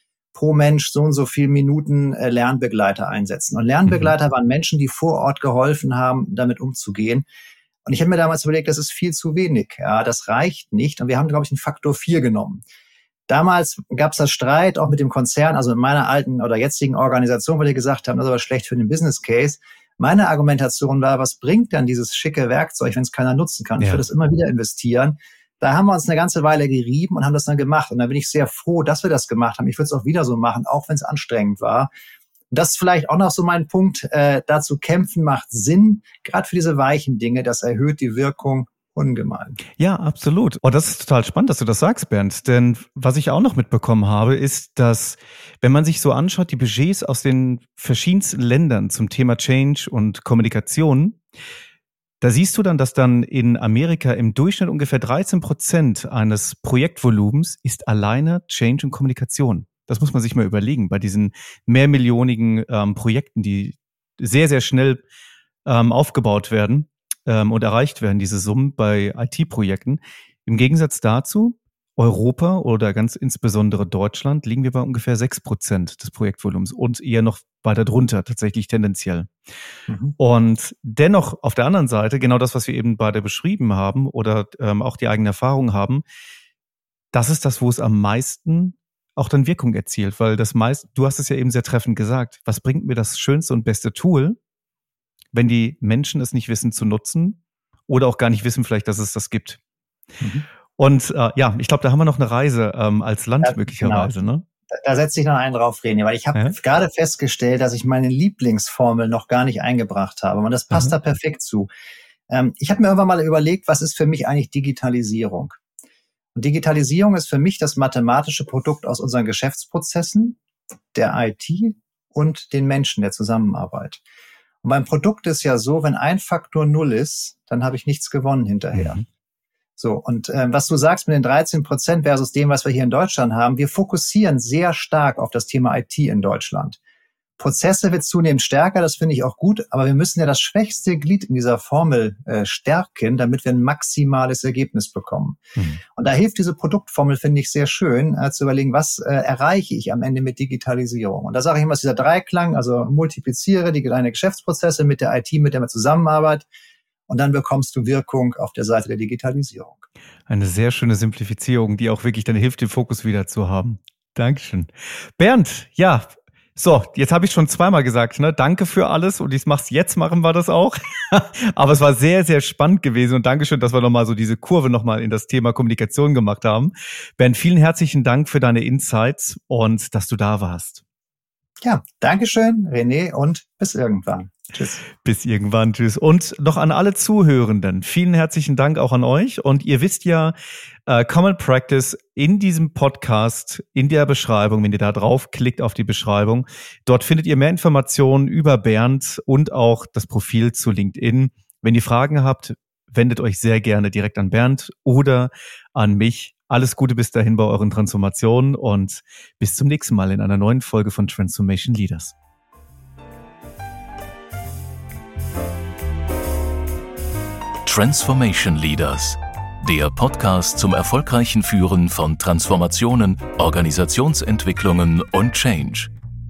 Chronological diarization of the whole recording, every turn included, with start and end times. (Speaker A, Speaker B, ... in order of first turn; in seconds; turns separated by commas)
Speaker A: 0.3-7.3, Speaker B: 3.9-4.1, Speaker A: 7.8-12.6, Speaker A: 13.3-31.9, Speaker A: 32.5-39.6, Speaker B: 39.8-51.2, Speaker B: 52.2-65.0, Speaker B: 65.7-79.3, Speaker B: 80.2-86.0, Speaker B: 87.1-94.4, Speaker B: 95.3-99.6, Speaker A: 100.2-100.5, Speaker B: 100.8-104.4, Speaker A: 103.4-104.1, Speaker A: 104.8-111.7, Speaker A: 112.3-115.6, Speaker A: 116.3-120.4, Speaker A: 120.9-124.0, Speaker A: 124.6-129.0, Speaker B: 128.7-129.0, Speaker A: 129.8-136.8, Speaker A: 137.4-145.4, Speaker A: 145.9-156.5, Speaker A: 157.1-159.9, Speaker B: 160.3-180.8, Speaker A: 181.6-184.8, Speaker B: 185.0-190.3, Speaker B: 190.9-212.1, Speaker C: 217.6-225.9